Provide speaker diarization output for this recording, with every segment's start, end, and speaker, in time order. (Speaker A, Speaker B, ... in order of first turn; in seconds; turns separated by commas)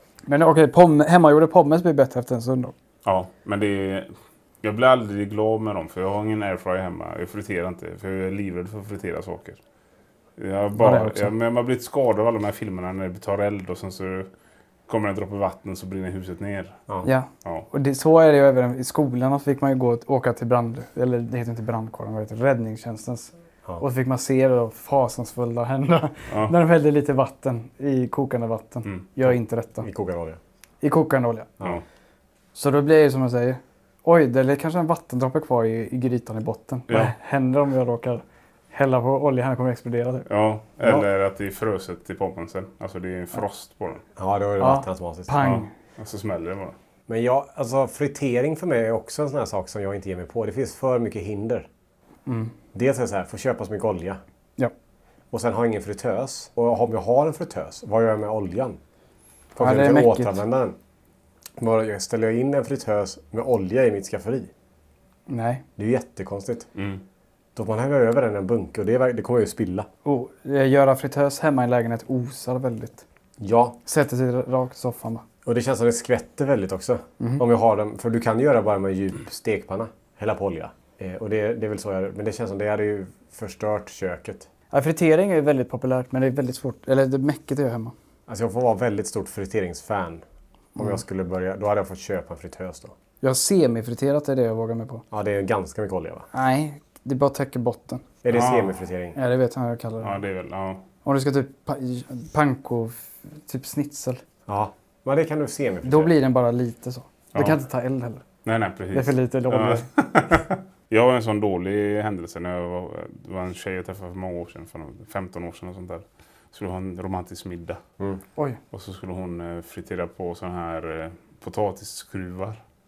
Speaker A: 0.3-2.7, Speaker B: 3.0-9.6, Speaker B: 10.4-14.3, Speaker A: 10.8-11.3, Speaker B: 14.9-16.8, Speaker A: 17.0-29.9, Speaker C: 29.2-30.4, Speaker A: 30.8-31.5, Speaker A: 32.5-40.2, Speaker B: 40.3-44.0, Speaker C: 44.1-45.3, Speaker A: 44.6-45.7, Speaker B: 45.4-46.7, Speaker C: 47.1-51.7, Speaker A: 52.3-52.5, Speaker C: 52.7-54.2, Speaker C: 55.3-58.8, Speaker C: 59.5-60.8, Speaker A: 59.6-60.4, Speaker C: 61.6-64.5, Speaker A: 65.3-65.6, Speaker C: 65.8-66.7, Speaker B: 66.8-67.0, Speaker C: 67.5-69.9, Speaker A: 70.0-73.0, Speaker C: 73.4-73.8, Speaker A: 73.8-75.2, Speaker C: 75.4-84.5, Speaker A: 84.7-87.9, Speaker C: 88.3-90.2, Speaker A: 90.8-91.0, Speaker C: 90.8-92.9, Speaker A: 93.2-95.0, Speaker C: 95.1-96.3, Speaker A: 96.3-98.0, Speaker C: 98.2-99.2, Speaker B: 98.3-98.7, Speaker A: 99.1-100.2, Speaker B: 100.0-100.8, Speaker A: 101.0-104.2, Speaker C: 104.5-106.1, Speaker A: 105.8-108.2, Speaker B: 107.3-107.6, Speaker B: 108.4-117.8, Speaker A: 108.9-109.8, Speaker B: 118.7-122.6